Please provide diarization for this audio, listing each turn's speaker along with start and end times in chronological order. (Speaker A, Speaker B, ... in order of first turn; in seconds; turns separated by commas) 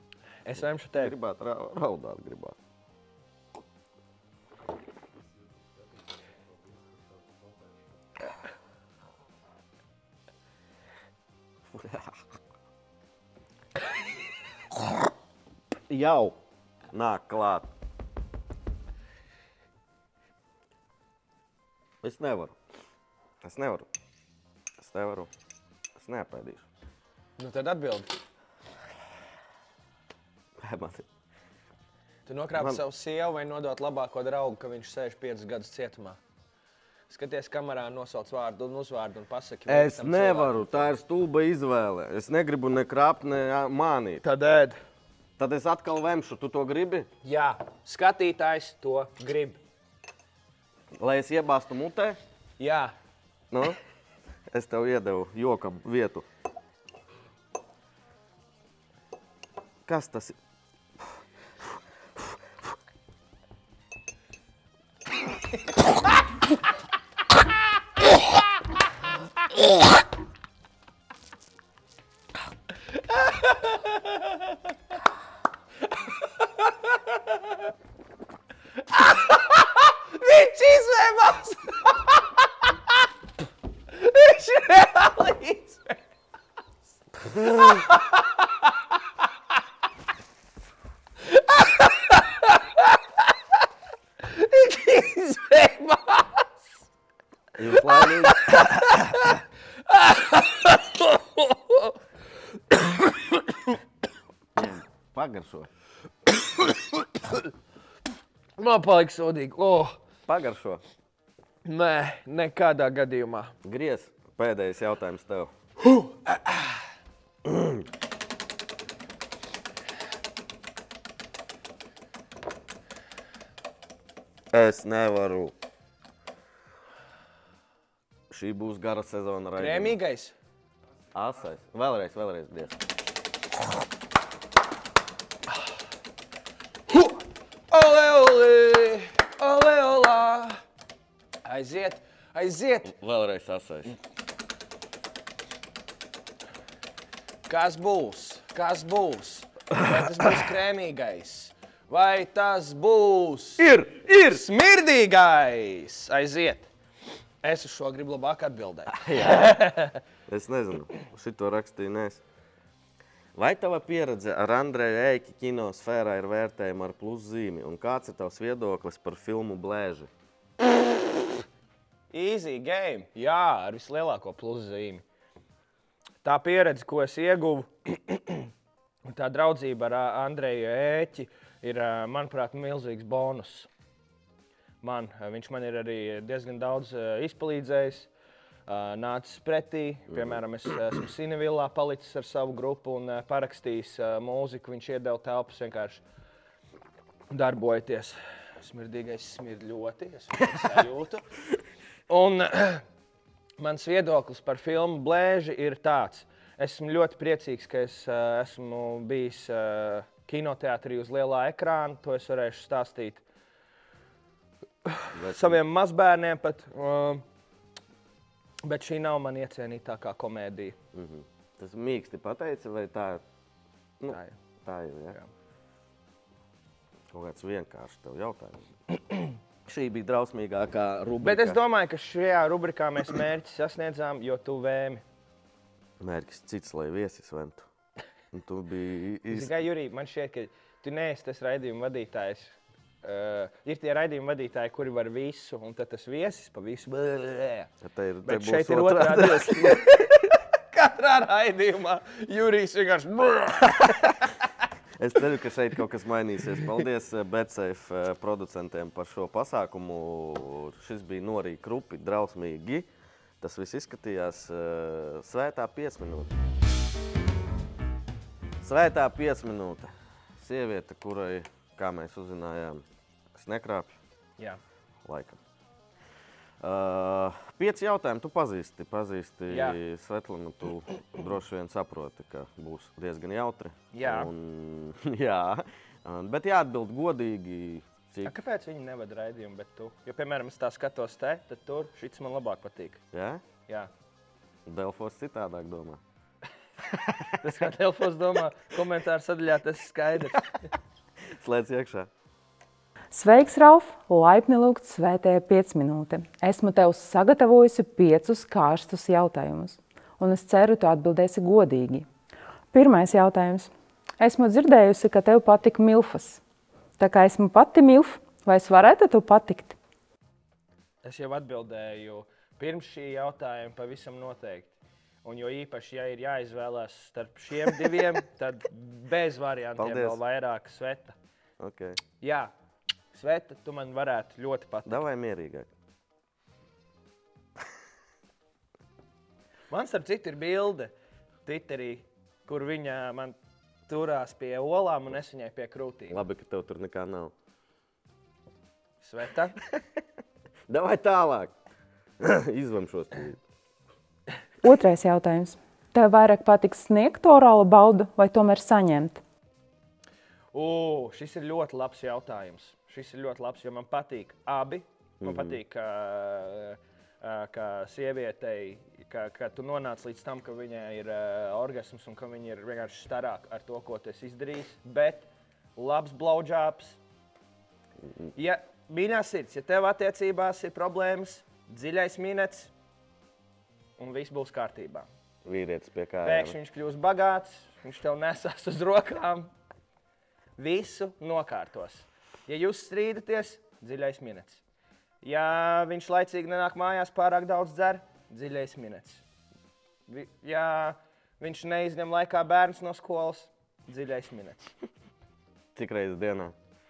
Speaker A: 0.4-1.1, Speaker B: 0.9-2.5, Speaker B: 11.7-12.2, Speaker B: 15.9-16.4, Speaker B: 16.9-17.7, Speaker B: 22.0-22.5, Speaker B: 23.4-23.9, Speaker B: 24.8-25.3, Speaker B: 26.0-26.6, Speaker A: 27.4-28.1, Speaker B: 30.6-31.1, Speaker A: 32.2-36.2, Speaker B: 32.5-32.8, Speaker A: 37.1-40.9, Speaker B: 39.7-44.2, Speaker A: 44.2-44.8, Speaker B: 45.4-47.1, Speaker A: 47.2-49.6, Speaker B: 51.0-52.2, Speaker A: 52.6-52.9, Speaker B: 53.5-53.8, Speaker B: 54.5-56.2, Speaker B: 59.9-60.4, Speaker A: 73.1-74.3, Speaker A: 76.6-77.3, Speaker A: 78.9-82.2, Speaker A: 83.9-86.0, Speaker A: 87.6-88.2, Speaker A: 91.3-92.8, Speaker A: 94.2-96.4, Speaker B: 97.6-98.5, Speaker A: 97.7-102.0, Speaker A: 102.7-103.5, Speaker B: 104.5-105.7, Speaker A: 106.5-106.8, Speaker A: 108.6-110.0, Speaker B: 110.3-110.8, Speaker A: 111.6-113.5, Speaker B: 113.6-115.5, Speaker A: 115.8-116.7, Speaker B: 117.4-117.8, Speaker B: 124.5-125.5, Speaker B: 128.3-129.9, Speaker A: 129.6-130.3, Speaker B: 131.1-132.8, Speaker A: 136.9-140.6, Speaker A: 141.4-142.9, Speaker B: 142.8-144.0, Speaker A: 147.5-153.7, Speaker B: 153.6-154.4, Speaker A: 154.2-156.7, Speaker A: 157.4-160.0, Speaker B: 158.9-159.7, Speaker B: 160.3-162.2, Speaker B: 163.3-170.1, Speaker A: 172.1-175.0, Speaker A: 176.2-178.5, Speaker A: 179.0-183.7, Speaker A: 184.8-188.1, Speaker A: 188.7-196.0, Speaker B: 190.1-190.4, Speaker A: 197.3-201.2, Speaker A: 202.1-202.8, Speaker A: 203.6-213.2, Speaker A: 214.8-217.2, Speaker B: 215.1-215.6, Speaker A: 218.6-220.8, Speaker B: 220.9-223.2, Speaker B: 224.0-225.2, Speaker A: 224.1-224.3, Speaker B: 227.1-228.7, Speaker B: 229.7-231.6, Speaker A: 231.2-235.0, Speaker B: 236.0-237.7, Speaker B: 238.3-239.5, Speaker A: 239.3-247.7, Speaker B: 247.8-249.9, Speaker A: 248.2-254.3, Speaker B: 255.0-262.9, Speaker B: 263.4-266.3, Speaker B: 268.6-272.8, Speaker B: 273.3-273.9, Speaker B: 275.0-275.4, Speaker B: 276.6-288.4, Speaker A: 279.5-279.8, Speaker A: 283.9-284.3, Speaker A: 288.2-293.0, Speaker B: 293.1-293.4, Speaker B: 294.6-296.0, Speaker A: 297.4-300.7, Speaker B: 301.3-302.1, Speaker C: 303.1-312.1, Speaker C: 312.7-316.4, Speaker C: 317.0-319.8, Speaker A: 321.0-331.1, Speaker B: 329.8-330.2, Speaker B: 331.6-332.0, Speaker A: 332.2-332.5, Speaker A: 333.1-335.0, Speaker B: 334.9-335.7, Speaker A: 339.7-340.9, Speaker A: 341.4-343.3, Speaker A: 343.9-346.2, Speaker B: 346.1-347.3, Speaker A: 349.0-349.6, Speaker B: 350.7-351.5, Speaker B: 352.2-353.4, Speaker C: 354.6-359.2, Speaker A: 360.5-377.0, Speaker B: 365.2-365.6, Speaker B: 378.0-378.3, Speaker A: 378.4-382.7, Speaker A: 384.0-385.1, Speaker B: 385.4-386.6, Speaker A: 386.2-389.5, Speaker A: 390.6-394.6, Speaker A: 395.2-399.2, Speaker A: 400.1-404.7, Speaker B: 405.7-406.5